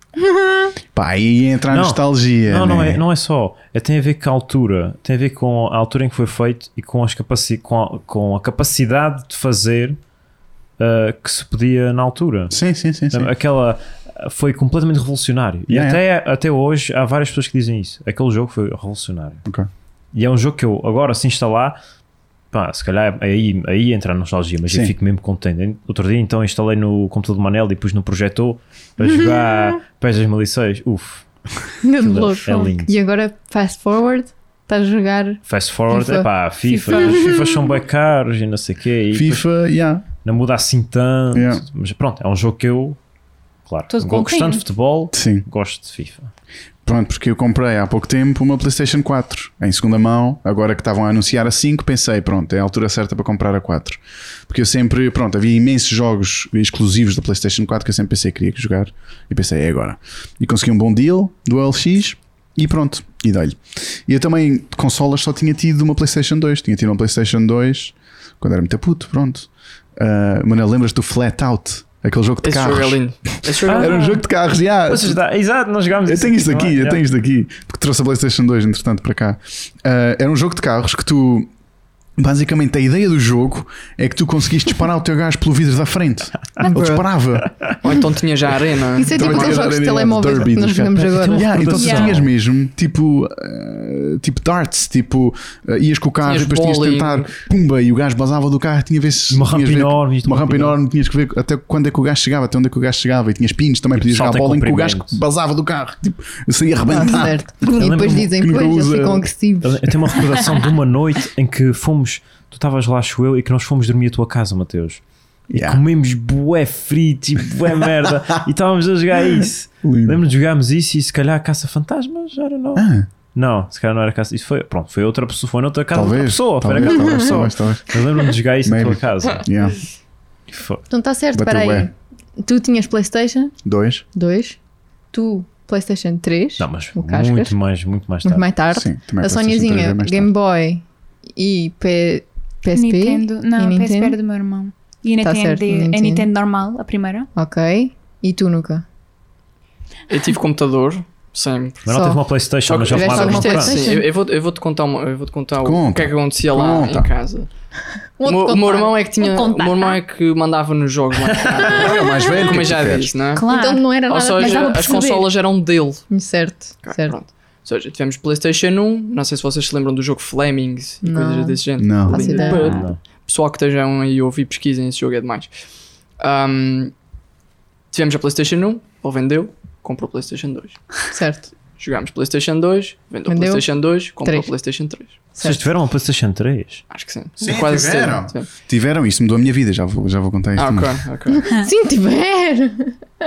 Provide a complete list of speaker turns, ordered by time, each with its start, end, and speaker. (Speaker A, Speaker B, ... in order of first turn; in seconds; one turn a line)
Speaker A: 0.2-0.7
Speaker B: 0.9-3.0
Speaker C: 1.7-10.0
Speaker C: 10.8-12.6
Speaker B: 12.5-13.3
Speaker C: 13.1-19.4
Speaker B: 15.7-16.0
Speaker C: 20.1-21.8
Speaker C: 22.5-31.2
Speaker A: 29.0-29.7
Speaker A: 31.8-36.3
Speaker C: 32.0-32.9
Speaker C: 35.5-39.5
Speaker D: 36.6-37.1
Speaker A: 36.9-37.5
Speaker B: 39.1-40.0
Speaker C: 40.2-43.0
Speaker B: 41.3-41.6
Speaker C: 43.6-46.3
Speaker D: 43.9-44.6
Speaker B: 45.1-45.4
Speaker B: 46.8-75.2
Speaker E: 72.4-74.0
Speaker C: 73.7-74.0
Speaker C: 74.9-77.0
Speaker B: 76.0-81.5
Speaker B: 82.2-87.5
Speaker A: 86.7-87.0
Speaker E: 87.8-89.6
Speaker A: 89.0-91.5
Speaker B: 89.1-109.3
Speaker C: 90.9-92.3
Speaker D: 91.8-92.1
Speaker E: 96.2-97.4
Speaker C: 99.3-100.8
Speaker C: 104.0-105.2
Speaker A: 106.9-109.9
Speaker C: 107.8-108.3
Speaker C: 109.6-129.5
Speaker B: 115.5-115.8
Speaker B: 119.8-120.2
Speaker B: 122.7-123.1
Speaker B: 125.9-128.0
Speaker B: 128.6-129.8
Speaker C: 130.5-130.8
Speaker A: 130.9-133.5
Speaker B: 131.3-131.9
Speaker B: 133.6-134.0
Speaker A: 134.1-134.6
Speaker A: 135.1-137.5
Speaker C: 136.6-138.5
Speaker A: 138.2-140.8
Speaker B: 138.7-140.3
Speaker A: 141.3-144.2
Speaker D: 142.7-147.3
Speaker A: 145.2-146.2
Speaker A: 147.3-148.8
Speaker E: 150.1-151.8
Speaker C: 151.8-153.8
Speaker A: 151.9-152.2
Speaker E: 152.6-157.5
Speaker A: 152.9-154.1
Speaker B: 155.6-157.1
Speaker A: 158.2-159.0
Speaker E: 158.2-163.5
Speaker D: 159.2-160.0
Speaker B: 161.7-163.1
Speaker D: 163.3-165.3
Speaker A: 163.5-165.1
Speaker E: 164.1-166.0
Speaker A: 166.1-167.2
Speaker E: 166.8-175.5
Speaker A: 171.0-172.8
Speaker B: 171.8-172.2
Speaker C: 172.4-173.0
Speaker E: 176.2-176.9
Speaker E: 177.9-181.0
Speaker A: 181.1-181.5
Speaker E: 181.8-185.2
Speaker A: 183.3-184.5
Speaker A: 185.3-185.6
Speaker C: 185.4-186.8
Speaker E: 186.9-188.5
Speaker B: 187.4-190.9
Speaker E: 190.6-191.4
Speaker A: 191.4-192.9